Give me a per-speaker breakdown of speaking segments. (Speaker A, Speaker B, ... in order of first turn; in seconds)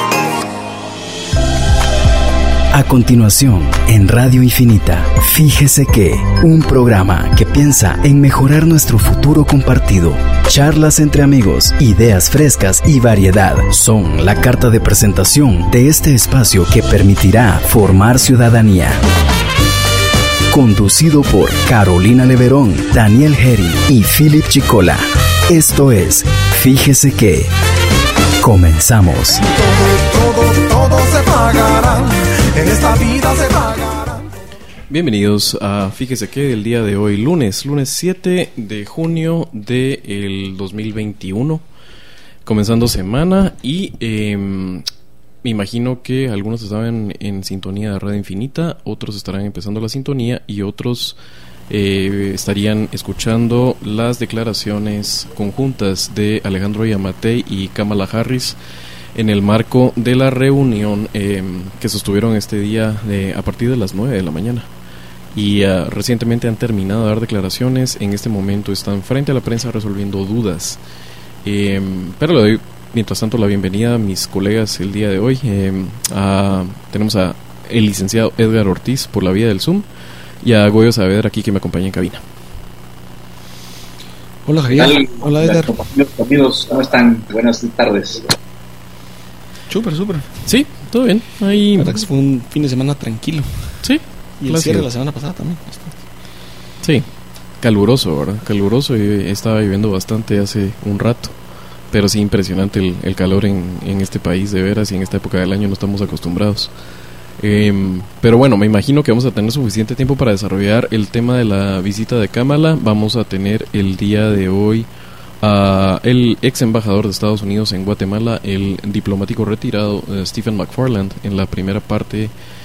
Speaker A: 2.7-19.0, 20.5-27.5, 28.4-29.4
Speaker B: 29.6-34.3
Speaker C: 34.9-41.6, 42.5-44.8, 45.4-51.2, 51.7-58.6, 59.1-64.7, 65.3-70.8, 71.5-79.9, 80.4-82.2, 90.5-92.0, 93.8-94.9, 96.8-97.1, 97.6-101.3, 101.9-106.7, 107.4-114.9, 115.4-122.3
Speaker D: 84.5-85.7, 89.7-90.3, 91.8-93.8, 94.4-96.0
Speaker E: 84.7-88.3